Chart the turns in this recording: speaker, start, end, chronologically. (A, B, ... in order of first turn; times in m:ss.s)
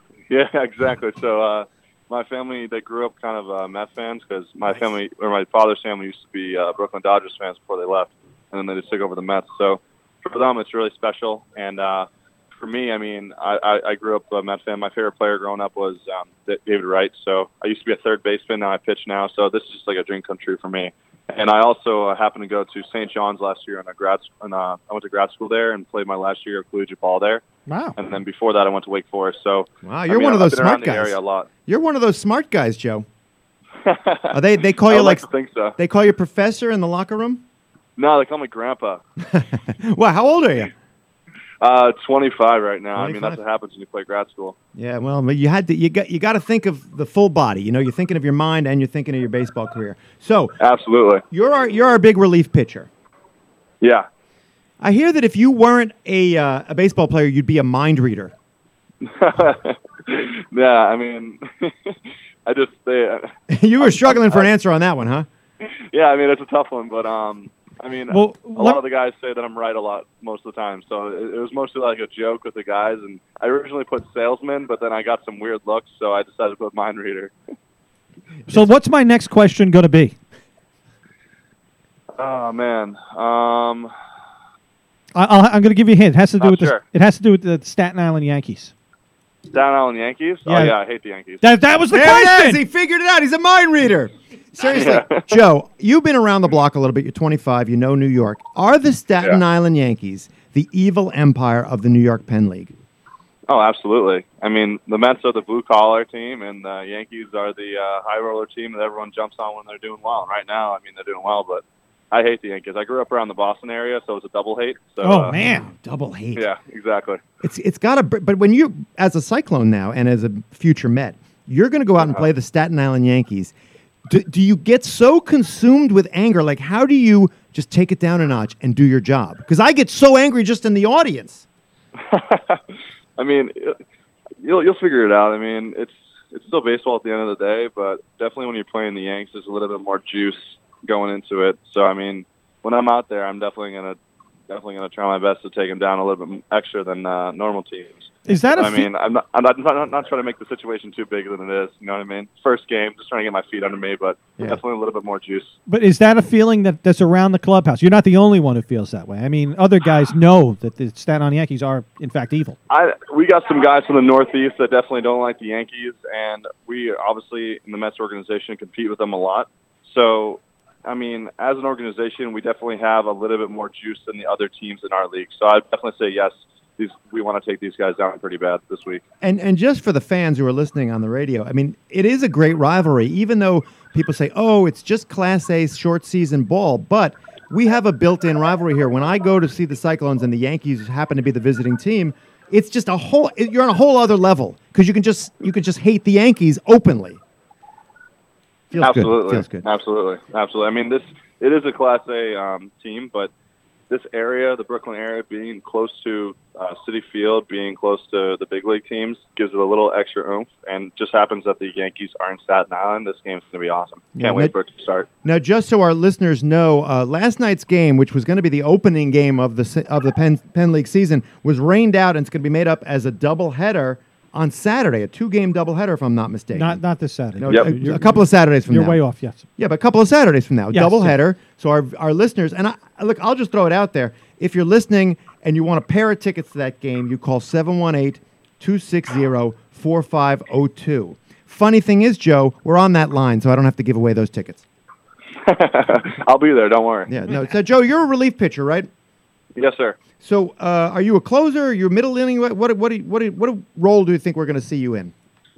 0:00.3-0:27.4 A
0:27.7-0:28.0 B
0:28.0-0:31.5 A
0:29.8-0:33.1 C
0:33.8-0:35.8 A
0:34.3-0:37.4 C
0:38.0-0:39.0 A
0:39.2-0:40.7 C
0:41.6-0:44.6 A
0:43.0-0:43.4 C
0:44.8-0:50.6 C
0:50.6-0:51.2 A
0:51.3-0:52.9 C
0:53.8-0:54.1 A
0:54.8-0:58.3 C
0:59.0-1:04.5 A
1:03.5-1:05.3 C
1:05.6-1:17.3 A
1:08.1-1:08.8 B
1:18.5-1:20.2 B
1:22.2-1:23.9 A
1:25.2-1:28.7 B
1:26.4-1:26.8 A
1:29.5-1:31.4 A
1:30.5-1:30.8 B
1:31.4-1:32.6 B
1:31.9-1:42.8 C
1:34.7-1:35.3 A
1:43.5-1:55.4 A
1:55.0-1:55.7 B
1:55.4-1:56.5 C
1:56.4-1:57.2 A
1:57.4-2:03.5 C
2:04.1-2:11.4 C
2:12.0-2:13.8 A
2:14.4-2:24.0 A
2:24.5-2:35.5 A
2:28.3-2:28.9 B
2:35.7-2:42.6 B
2:42.7-2:59.0 A
2:59.2-3:17.2 C
3:18.7-3:19.6 C
3:18.8-3:23.3 A
3:23.9-3:35.1 A
3:34.2-3:34.5 C
3:35.2-3:46.8 C
3:46.5-3:49.4 B
3:47.4-3:49.0 C
3:49.6-4:04.6 C
3:50.7-3:51.2 B
4:05.4-4:07.1 A
4:07.1-4:08.9 C
4:09.6-4:10.0 A
4:10.2-4:15.1 C